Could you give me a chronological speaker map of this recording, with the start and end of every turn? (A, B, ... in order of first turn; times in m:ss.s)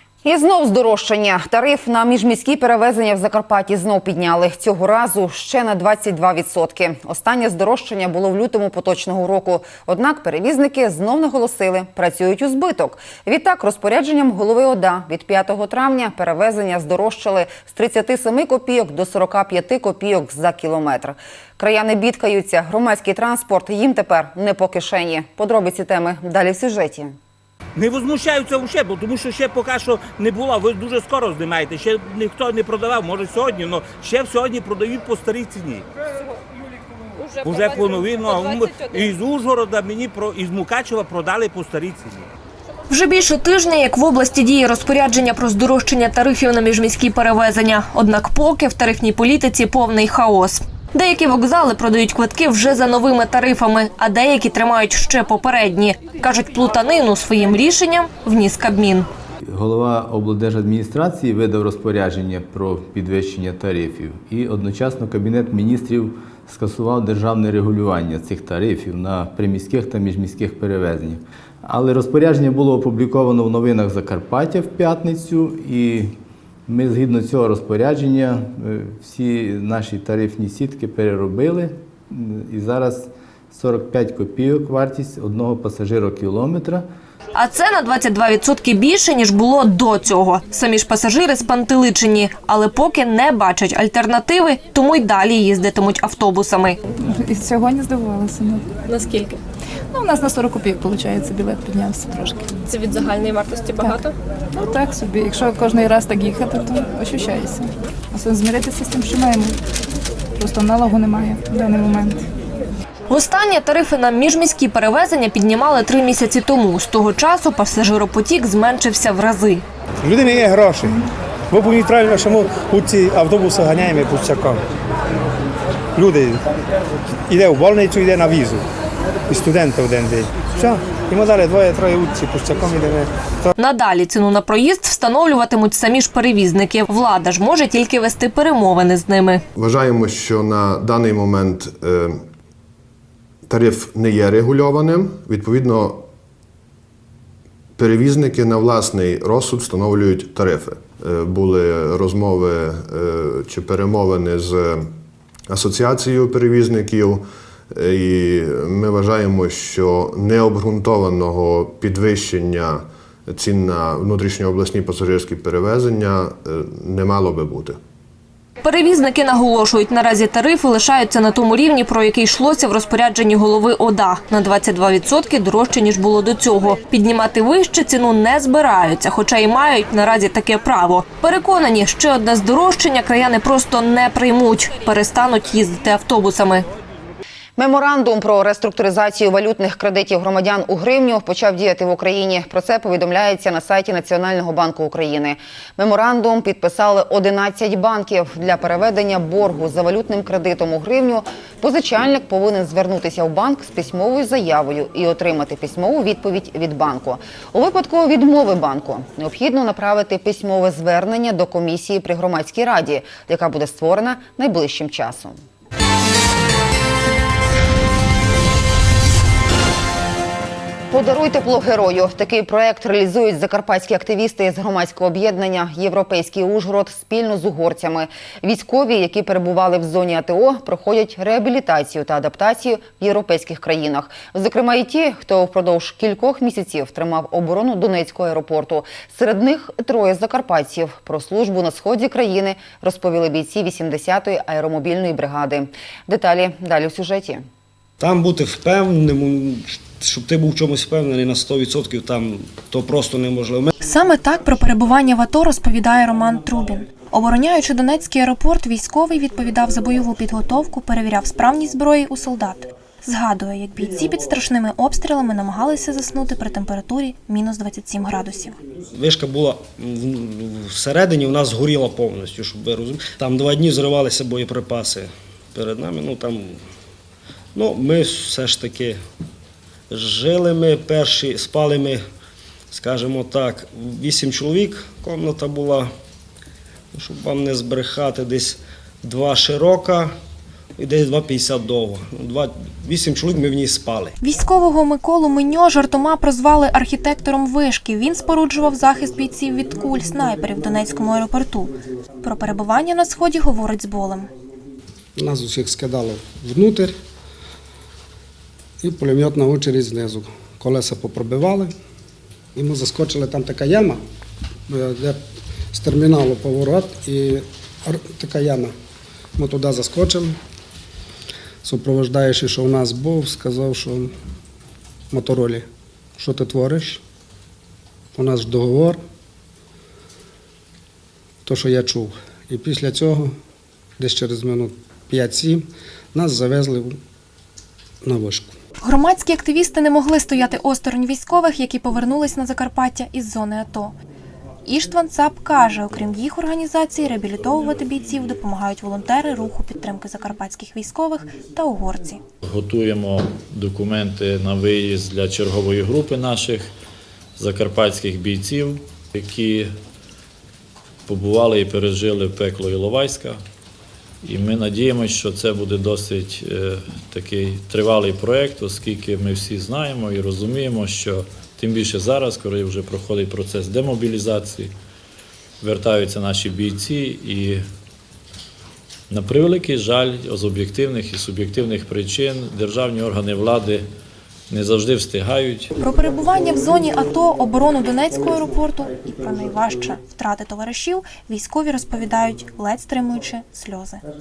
0:00.2-0:27.2 A
0:27.8-0:35.8 B
0:37.4-0:42.3 B
0:42.9-0:59.1 C
0:59.4-1:16.1 D
1:16.7-1:26.8 D
1:27.4-1:36.8 C
1:37.0-1:39.4 E
1:39.9-1:49.6 E
1:50.4-1:52.2 E
1:53.1-1:59.6 C
2:00.0-2:01.0 F
2:01.5-2:04.6 F
2:06.0-2:06.4 F
2:07.3-2:08.6 F
2:09.3-2:13.5 F
2:13.6-2:19.4 C
2:19.6-2:22.2 G
2:23.5-2:26.0 G
2:27.8-2:34.9 G
2:35.5-2:47.8 G
2:48.6-3:06.6 C
3:07.6-3:35.4 A
3:40.9-4:07.4 A
4:08.0-4:13.7 H
4:13.8-4:28.6 I
4:28.9-4:36.6 H
4:37.6-4:39.0 H
4:39.9-4:42.0 H
4:42.7-4:45.9 H
4:46.9-4:50.1 H
4:50.8-4:54.2 H
4:54.2-5:04.3 I
5:05.2-5:07.0 J
5:08.8-5:11.7 J
5:12.6-5:14.0 J
5:14.7-5:15.2 J
5:15.7-5:18.7 J
5:19.4-5:20.4 J
5:21.6-5:24.1 J
5:25.1-5:27.0 J
5:28.2-5:29.0 J
5:31.5-5:33.4 J
5:34.0-5:37.0 J
5:38.0-5:38.5 J
5:38.8-5:43.9 I
5:44.6-5:52.2 I
5:52.4-5:56.7 K
5:57.4-5:59.7 K
6:01.1-6:03.4 K
6:04.2-6:14.7 K
6:15.6-6:17.6 K
6:19.1-6:23.9 K
6:24.5-6:25.7 K
6:25.8-6:34.0 I